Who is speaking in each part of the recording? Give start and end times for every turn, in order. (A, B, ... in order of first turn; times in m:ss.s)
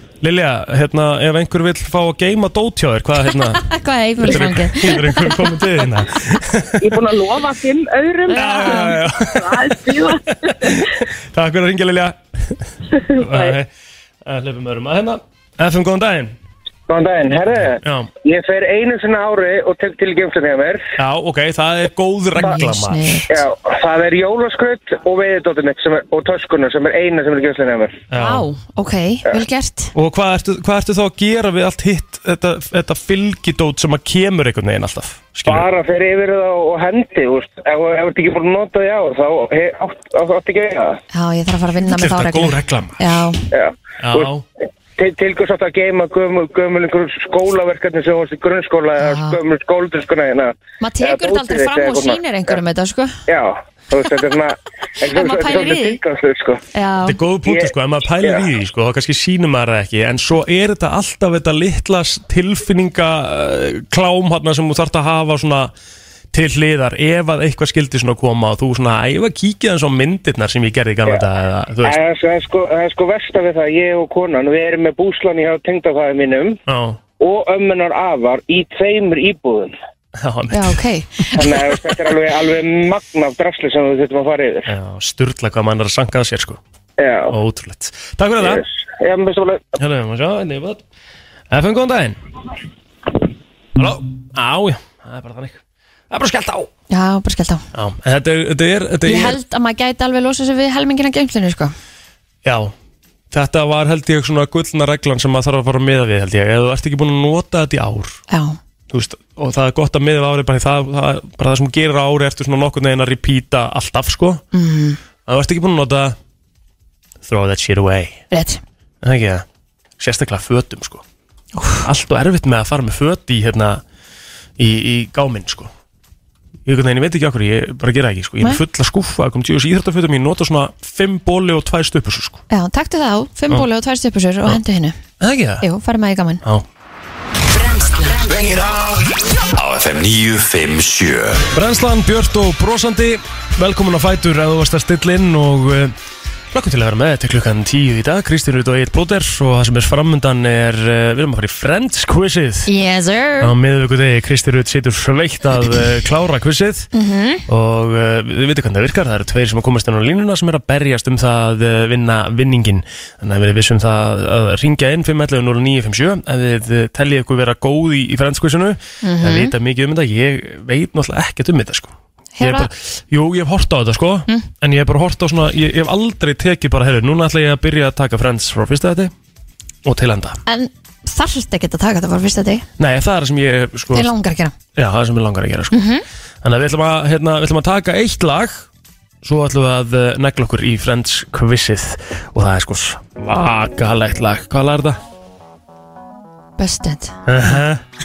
0:00.2-0:03.6 A
0:03.6-0:05.5 B
0:04.2-0:07.0 A
0:06.8-0:10.8 C
0:08.3-0:09.0 B
0:08.3-0:12.6 A
0:13.0-0:13.5 C
0:13.2-0:13.7 A
0:14.2-0:16.3 A
0:16.9-0:20.8 D
0:17.8-0:18.1 A
0:21.0-0:23.3 A
0:22.4-0:23.3 B
0:23.3-0:28.0 D
0:28.1-0:28.5 A
0:28.1-0:29.9 B
0:29.9-0:35.6 A
0:35.4-0:41.0 D
0:41.1-0:43.4 B
0:41.8-0:43.3 A
0:43.5-0:44.3 D
0:44.0-0:44.4 A
0:45.0-0:52.6 D
0:49.0-0:49.4 B
0:50.8-0:53.2 B
0:53.3-0:56.6 D
0:55.1-0:56.0 B
0:56.7-0:57.2 B
0:57.0-1:05.7 A
0:57.4-0:58.4 D
1:06.3-1:12.0 A
1:11.8-1:16.6 D
1:16.7-1:17.0 A
1:17.2-1:19.7 D
1:20.2-1:20.8 A
1:20.5-1:21.4 B
1:21.3-1:24.7 D
1:24.7-1:26.6 A
1:27.0-1:27.4 D
1:27.3-1:28.6 A
1:28.4-1:29.6 D
1:29.8-1:30.8 A
1:31.5-1:32.2 A
1:33.8-1:36.7 A
1:36.9-1:37.6 B
1:37.7-1:39.4 A
1:39.0-1:41.7 B
1:42.4-1:42.7 A
1:43.3-1:48.2 A
1:48.3-1:48.6 B
1:48.9-1:54.4 A
1:54.5-1:55.0 B
1:55.2-1:56.2 A
1:57.2-1:58.2 A
1:58.3-1:58.6 B
1:59.0-1:59.4 A
2:00.0-2:01.0 A
2:01.6-2:01.8 B
2:01.8-2:03.8 A
2:04.6-2:05.7 A
2:06.6-2:12.4 A
2:12.5-2:15.0 B
2:15.2-2:15.6 A
2:15.6-2:16.4 B
2:18.0-2:21.5 E
2:21.5-2:25.9 A
2:26.5-2:32.7 A
2:32.6-2:33.5 B
2:33.4-2:36.9 A
2:36.9-2:37.4 B
2:37.5-2:59.1 A
2:49.0-2:49.5 B
2:52.4-2:52.7 B
2:59.8-3:00.4 A
3:00.4-3:02.6 B
3:02.8-3:04.1 A
3:03.9-3:04.5 B
3:04.7-3:05.8 A
3:05.7-3:06.0 B
3:06.4-3:08.7 A
3:09.2-3:15.0 A
3:16.6-3:17.2 B
3:17.3-3:17.8 A